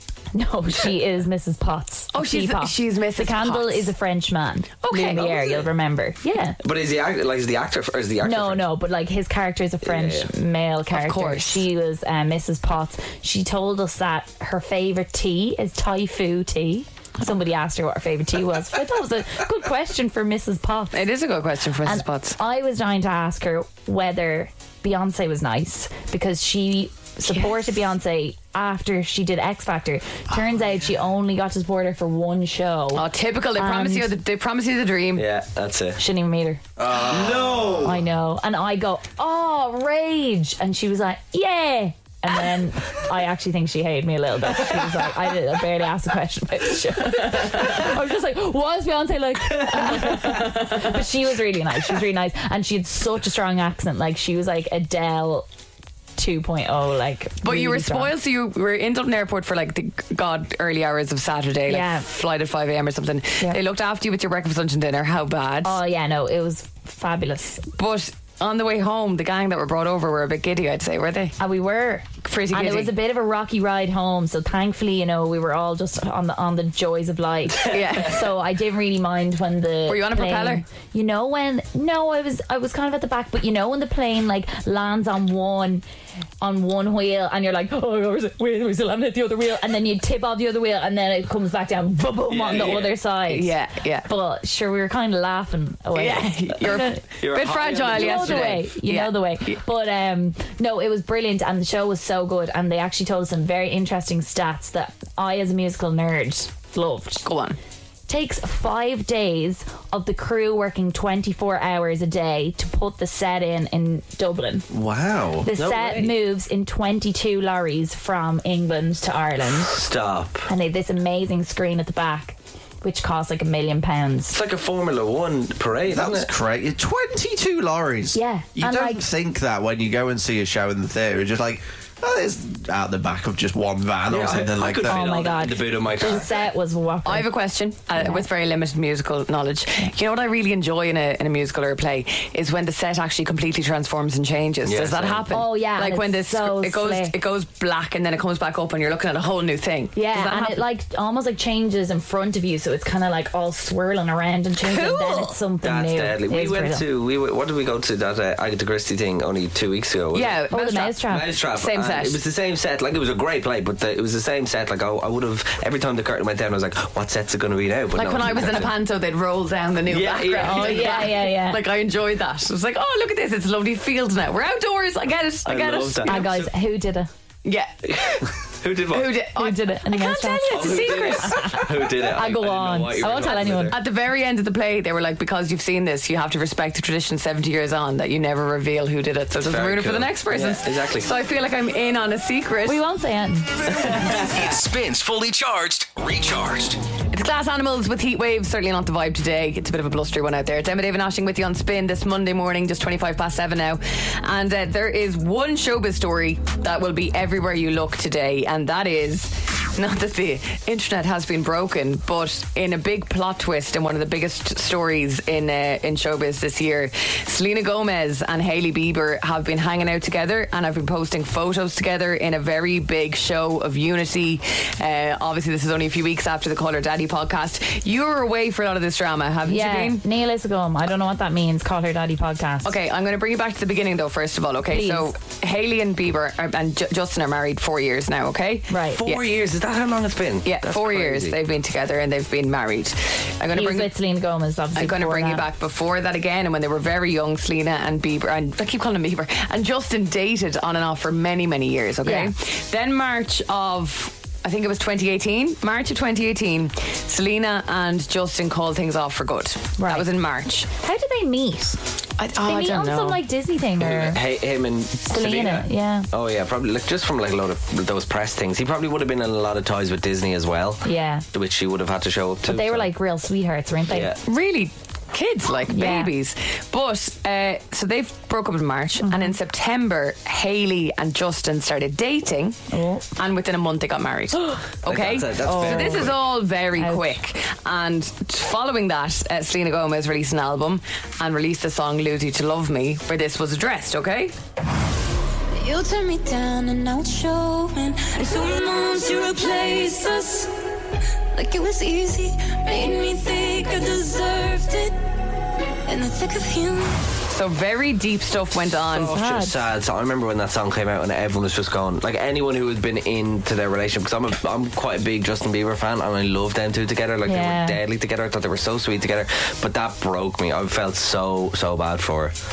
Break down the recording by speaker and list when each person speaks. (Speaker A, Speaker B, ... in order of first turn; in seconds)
Speaker A: 0.3-6.6, 8.2-21.1, 21.9-33.1, 33.6-34.1, 36.0-36.6, 37.8-55.5, 56.2-58.1, 61.7-62.1, 65.6-67.7, 71.4-85.8, 86.4-93.5, 94.0-97.0, 97.9-107.3, 108.1-114.7, 115.4-119.8, 120.5-124.4, 128.1-129.0, 134.9-137.3, 138.0-138.3, 145.3-147.1, 149.9-156.8, 160.5-161.3, 170.3-171.6, 176.1-177.1, 179.4-183.8, 192.7-193.5, 229.5-232.8, 234.7-235.1, 238.7-239.0, 243.5-245.5, 252.0-252.3, 259.8-260.1, 260.7-261.8, 262.4-264.2, 265.1-266.1, 270.8-271.2, 272.5-274.1, 275.7-276.1, 279.0-279.3, 282.7-283.1, 285.4-286.1, 286.8-287.1, 309.1-309.6, 317.3-317.8
Speaker B: 2.1-3.9, 4.8-5.6, 10.9-11.7, 20.9-22.4, 27.3-27.6, 32.9-35.3, 49.9-50.9, 57.4-65.8, 67.7-71.4, 72.2-72.9, 77.7-78.3, 79.9-80.7, 92.5-94.1, 96.0-99.6, 107.2-107.6, 137.1-150.6, 154.6-155.3, 160.1-162.2, 167.9-176.3, 177.4-178.3, 178.9-181.9, 183.3-192.8, 197.1-230.0, 232.7-239.2, 240.4-243.9, 244.8-260.7, 262.2-263.2, 274.2-282.6, 283.2-294.4, 295.6-298.2, 298.9-300.0, 301.4-304.6, 305.9-309.1
Speaker C: 5.2-5.5, 6.6-8.7, 9.8-10.3, 35.1-36.0, 36.9-37.9, 92.3-92.9, 97.2-98.6, 114.7-116.2, 119.6-120.5, 124.3-126.3, 134.1-136.3, 144.7-145.2, 155.6-160.4, 161.1-168.8, 169.9-171.1, 175.4-176.5, 177.9-179.2, 180.5-183.8, 189.4-191.1, 193.9-194.2, 239.0-241.4, 263.8-272.9, 273.9-274.2, 284.9-286.3, 308.9-322.3
Speaker D: 36.8-37.9, 125.9-135.1
Speaker E: 193.8-196.8
Speaker F: 298.1-300.4, 303.8-304.9